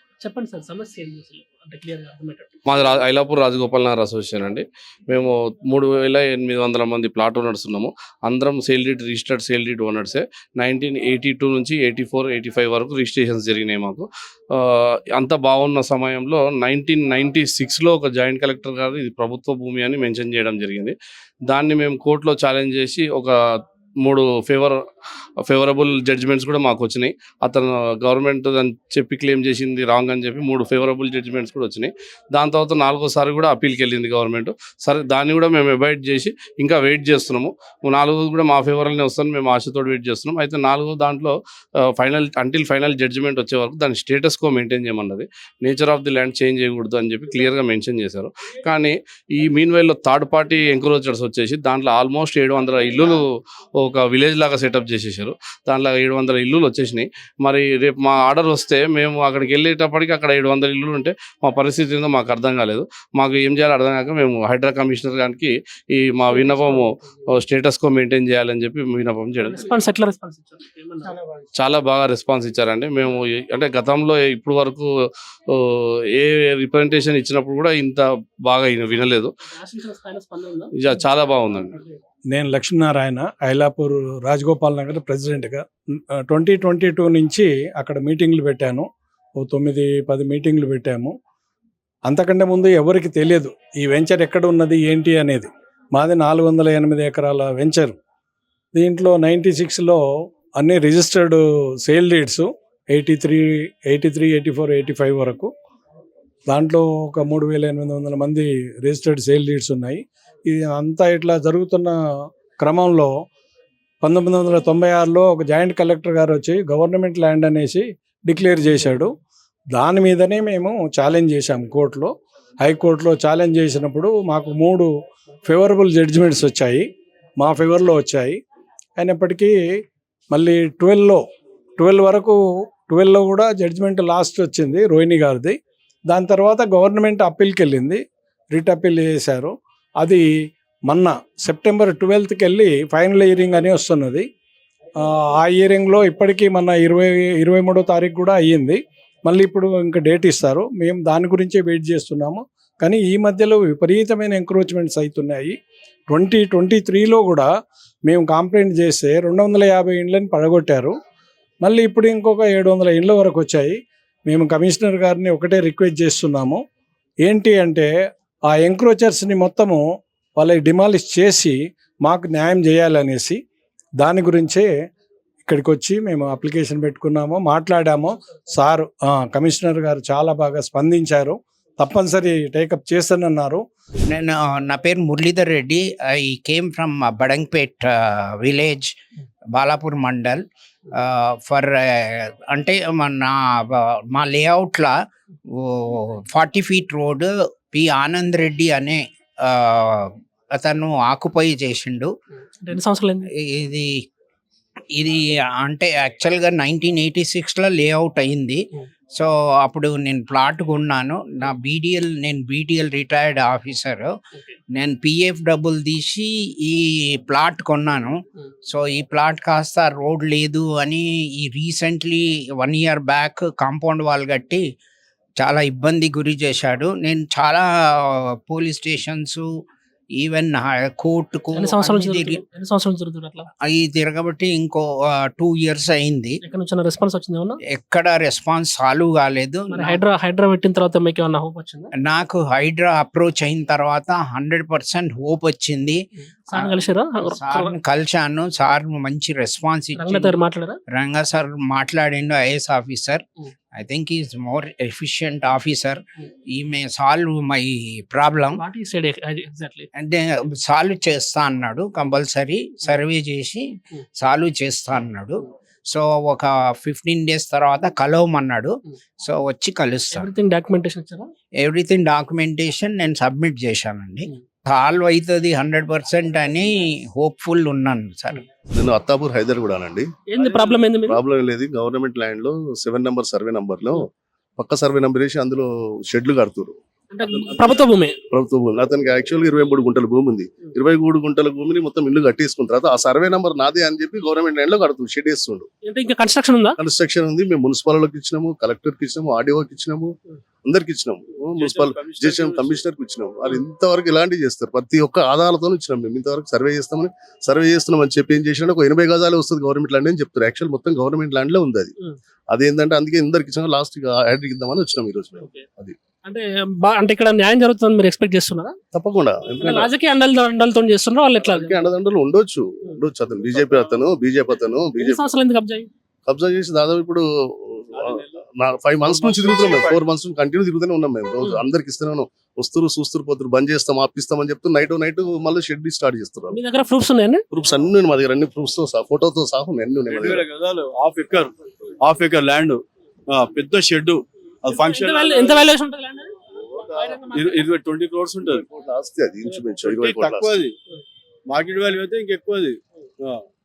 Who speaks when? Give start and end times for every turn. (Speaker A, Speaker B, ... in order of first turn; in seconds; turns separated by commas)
Speaker A: 0.2-2.6, Speaker B: 2.7-20.9, Speaker B: 21.5-23.3, Speaker B: 24.0-24.8, Speaker B: 25.4-41.3, Speaker B: 41.9-53.2, Speaker B: 53.8-66.9, Speaker A: 66.3-66.8, Speaker B: 67.4-69.7, Speaker A: 69.4-71.2, Speaker B: 71.6-74.9, Speaker B: 75.5-79.3, Speaker A: 79.5-80.7, Speaker B: 80.8-81.7, Speaker C: 82.3-91.2, Speaker C: 92.0-98.0, Speaker C: 98.7-100.0, Speaker C: 100.5-105.5, Speaker C: 106.5-112.0, Speaker C: 112.6-113.1, Speaker C: 114.0-119.1, Speaker C: 119.7-124.9, Speaker C: 125.4-126.8, Speaker C: 127.4-128.4, Speaker C: 129.0-129.6, Speaker C: 130.3-131.2, Speaker C: 131.8-140.2, Speaker C: 140.9-144.3, Speaker C: 145.0-155.6, Speaker C: 156.1-157.5, Speaker C: 158.0-160.9, Speaker C: 161.6-166.6, Speaker C: 167.2-167.9, Speaker C: 168.4-169.8, Speaker C: 170.3-173.4, Speaker C: 174.0-174.7, Speaker C: 175.4-183.6, Speaker D: 184.1-188.9, Speaker D: 189.5-194.9, Speaker D: 195.6-202.1, Speaker A: 202.6-203.3, Speaker D: 203.4-203.9, Speaker D: 204.9-208.6, Speaker D: 209.1-214.1, Speaker D: 214.7-224.6, Speaker D: 225.4-229.5, Speaker D: 230.2-232.4, Speaker A: 231.5-233.5, Speaker D: 233.7-236.4, Speaker A: 236.4-237.6, Speaker D: 237.7-240.0, Speaker A: 239.7-241.9, Speaker D: 242.0-246.8, Speaker A: 246.5-247.7, Speaker D: 247.3-250.3, Speaker A: 249.9-250.8, Speaker D: 250.9-258.6, Speaker A: 258.6-259.9, Speaker D: 259.9-270.3, Speaker A: 270.1-271.2, Speaker D: 271.6-278.4, Speaker E: 278.7-280.1, Speaker A: 280.3-281.2, Speaker F: 280.4-280.9, Speaker E: 281.0-286.8, Speaker A: 287.1-288.1, Speaker E: 287.3-287.8, Speaker E: 288.3-295.7, Speaker A: 295.8-296.8, Speaker E: 296.8-311.9, Speaker F: 301.6-302.9, Speaker E: 312.5-316.0, Speaker A: 315.4-315.6, Speaker A: 316.2-318.8, Speaker E: 318.9-319.9, Speaker A: 319.6-321.7, Speaker E: 321.4-325.2, Speaker A: 325.0-325.9, Speaker E: 326.2-336.6, Speaker F: 327.9-330.0, Speaker A: 336.5-337.4, Speaker E: 337.5-340.5, Speaker F: 340.2-345.6, Speaker A: 344.7-346.3, Speaker E: 346.9-347.2, Speaker A: 346.9-347.7, Speaker F: 347.3-348.6, Speaker E: 348.6-350.6, Speaker F: 349.5-350.7, Speaker F: 351.5-353.4